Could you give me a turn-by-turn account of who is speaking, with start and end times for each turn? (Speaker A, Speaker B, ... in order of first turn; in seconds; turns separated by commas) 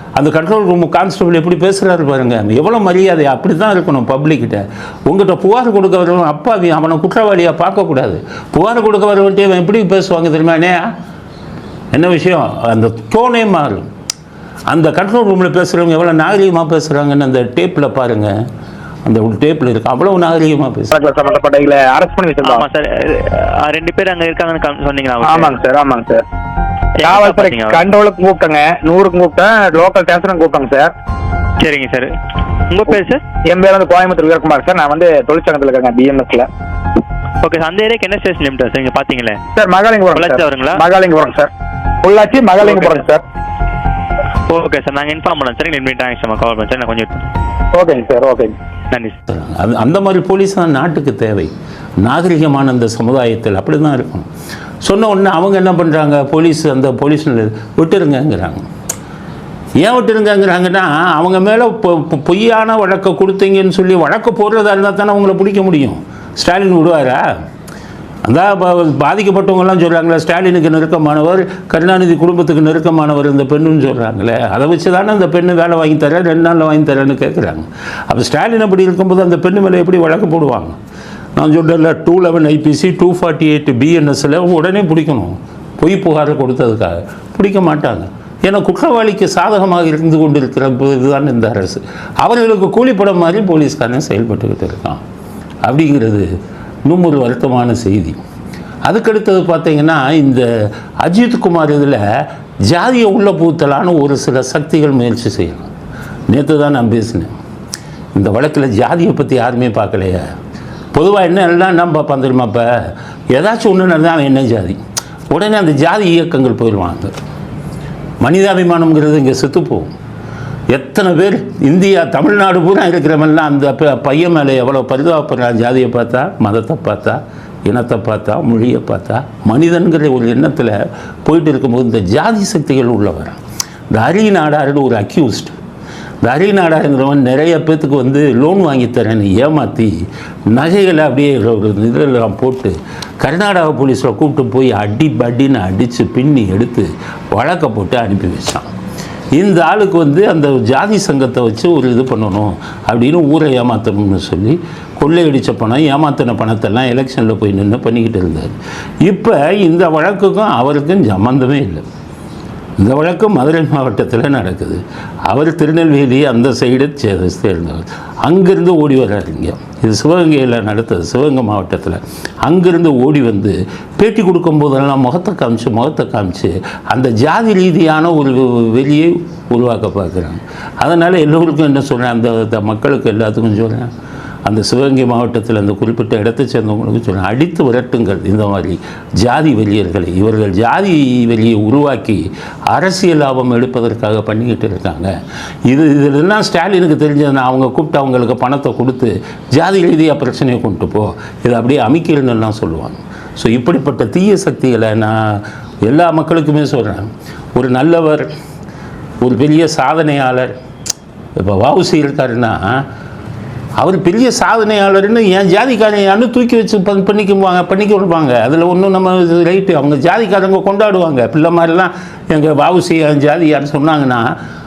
Speaker A: 0.2-10.8, Speaker A: 11.9-13.9, Speaker A: 14.7-18.3, Speaker A: 19.1-20.9, Speaker B: 20.9-22.7, Speaker C: 22.4-25.6, Speaker B: 25.2-26.2, Speaker C: 27.0-27.9, Speaker B: 27.0-30.9, Speaker C: 31.6-32.1, Speaker C: 32.7-33.2, Speaker B: 33.5-36.5, Speaker C: 37.4-39.4, Speaker B: 39.5-41.5, Speaker C: 40.1-40.8, Speaker B: 42.0-43.2, Speaker C: 42.6-43.0, Speaker C: 44.5-47.2, Speaker B: 47.7-48.5, Speaker A: 49.3-54.3, Speaker A: 54.8-58.7, Speaker A: 59.8-67.2, Speaker A: 68.2-80.8, Speaker A: 81.4-95.0, Speaker A: 95.7-96.3, Speaker A: 96.9-98.2, Speaker A: 98.9-100.5, Speaker A: 101.0-102.0, Speaker A: 102.7-105.7, Speaker A: 106.3-107.3, Speaker A: 108.2-110.3, Speaker A: 110.9-112.7, Speaker A: 113.3-114.8, Speaker A: 115.3-117.1, Speaker A: 118.2-119.9, Speaker A: 120.7-133.4, Speaker A: 133.9-135.6, Speaker A: 136.2-139.9, Speaker A: 140.5-148.7, Speaker A: 149.4-161.8, Speaker A: 162.8-183.9, Speaker A: 184.5-195.1, Speaker A: 195.7-208.3, Speaker A: 209.2-210.6, Speaker A: 211.4-212.8, Speaker A: 213.8-224.3